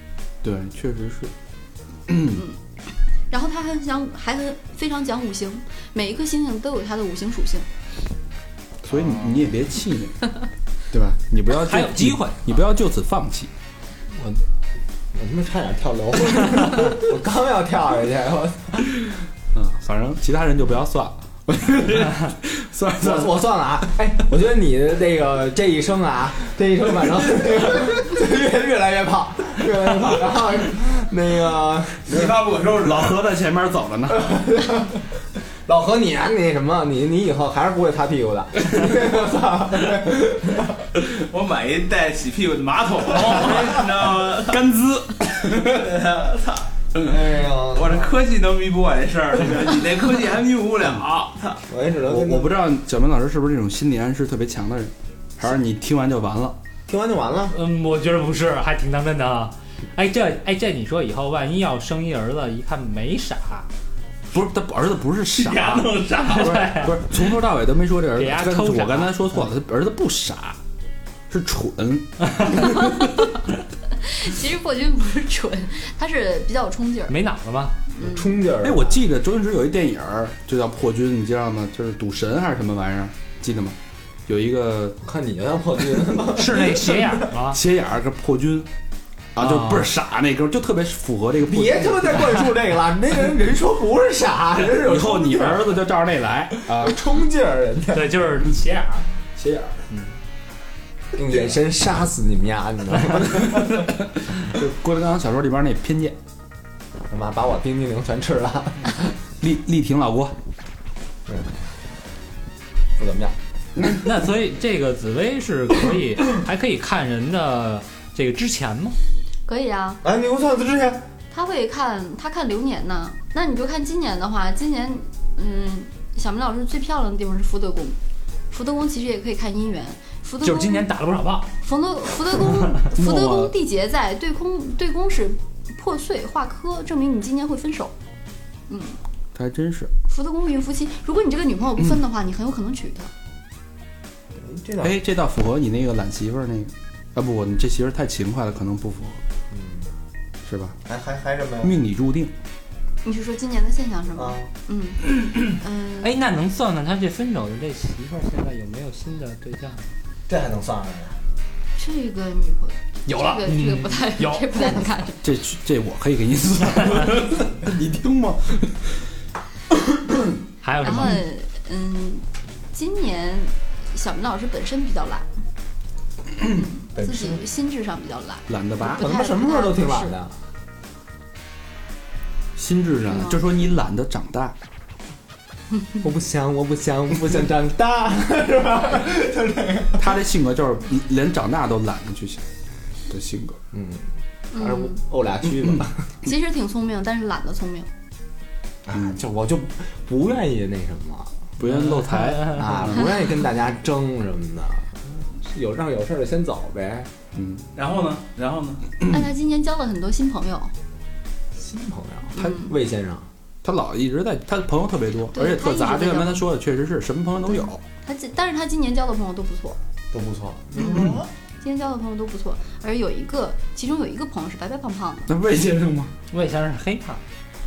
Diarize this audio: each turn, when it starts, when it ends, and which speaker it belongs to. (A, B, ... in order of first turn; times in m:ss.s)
0:00.4-0:01.3 A
0:02.1-0:02.4 A
0:03.3-0:07.7 B
0:08.8-0:10.3 A
0:10.9-0:13.5 A
0:11.6-0:12.4 C
0:14.1-0:14.4 D
0:15.1-0:18.9 D
0:19.5-0:23.5 A
0:23.0-0:32.2 D
0:32.1-0:33.1 E
0:32.8-0:34.3 A
0:34.1-0:35.0 D
0:35.6-0:40.8 D
0:41.0-0:44.6 E
0:44.5-0:45.5 A
0:45.3-0:46.7 E
0:47.0-0:48.0 D
0:47.7-0:51.6 E
0:51.6-0:52.5 D
0:52.0-0:56.6 A
0:56.9-0:57.5 D
0:57.5-1:03.7 C
1:04.3-1:10.6 A
1:05.4-1:06.6 E
1:06.2-1:06.9 C
1:08.2-1:09.1 C
1:11.3-1:13.0 A
1:14.0-1:17.2 B
1:17.1-1:17.8 C
1:18.0-1:18.3 B
1:18.0-1:19.0 D
1:18.6-1:23.8 A
1:24.3-1:25.0 A
1:25.0-1:27.2 D
1:26.3-1:27.6 C
1:27.5-1:28.7 A
1:29.3-1:32.5 A
1:29.4-1:29.9 C
1:31.5-1:35.8 D
1:34.8-1:37.0 A
1:36.7-1:38.1 D
1:37.9-1:39.0 C
1:39.4-1:40.0 D
1:41.1-1:43.9 D
1:43.8-1:46.2 A
1:47.1-1:49.1 D
1:49.4-1:50.3 A
1:51.3-1:51.5 D
1:53.0-1:53.3 D
1:53.9-1:59.0 C
1:59.5-2:00.0 B
2:00.0-2:01.0 D
2:01.3-2:08.0 B
2:08.5-2:10.9 B
2:10.4-2:11.5 C
2:11.6-2:17.9 B
2:12.7-2:13.5 A
2:18.7-2:19.0 B
2:19.3-2:19.9 A
2:20.1-2:23.1 B
2:24.4-2:24.9 D
2:24.8-2:29.2 A
2:29.5-2:29.9 D
2:30.4-2:30.8 A
2:30.8-2:31.8 D
2:31.6-2:32.3 A
2:33.0-2:36.1 B
2:34.2-2:34.5 D
2:36.0-2:39.9 C
2:40.3-2:41.2 D
2:41.8-2:45.2 B
2:43.1-2:44.8 C
2:45.2-2:48.9 A
2:50.6-2:51.2 C
2:50.8-2:55.3 B
2:56.5-3:00.1 B
2:56.9-2:57.4 D
2:58.5-2:59.1 A
2:58.9-3:00.3 D
3:02.6-3:04.6 A
3:03.1-3:03.4 B
3:06.0-3:10.0 D
3:10.0-3:12.4 A
3:13.1-3:13.6 A
3:13.7-3:16.0 D
3:14.5-3:15.0 B
3:16.2-3:17.9 B
3:18.8-3:21.3 D
3:21.6-3:23.0 A
3:21.7-3:22.7 C
3:22.4-3:27.1 D
3:27.3-3:27.6 A
3:27.7-3:28.9 E
3:29.1-3:30.7 B
3:31.6-3:33.3 D
3:32.4-3:32.7 B
3:33.6-3:37.8 A
3:35.3-3:36.4 B
3:38.0-3:39.8 B
3:40.1-3:41.3 D
3:41.6-3:45.3 B
3:45.3-3:46.1 A
3:46.3-3:47.2 C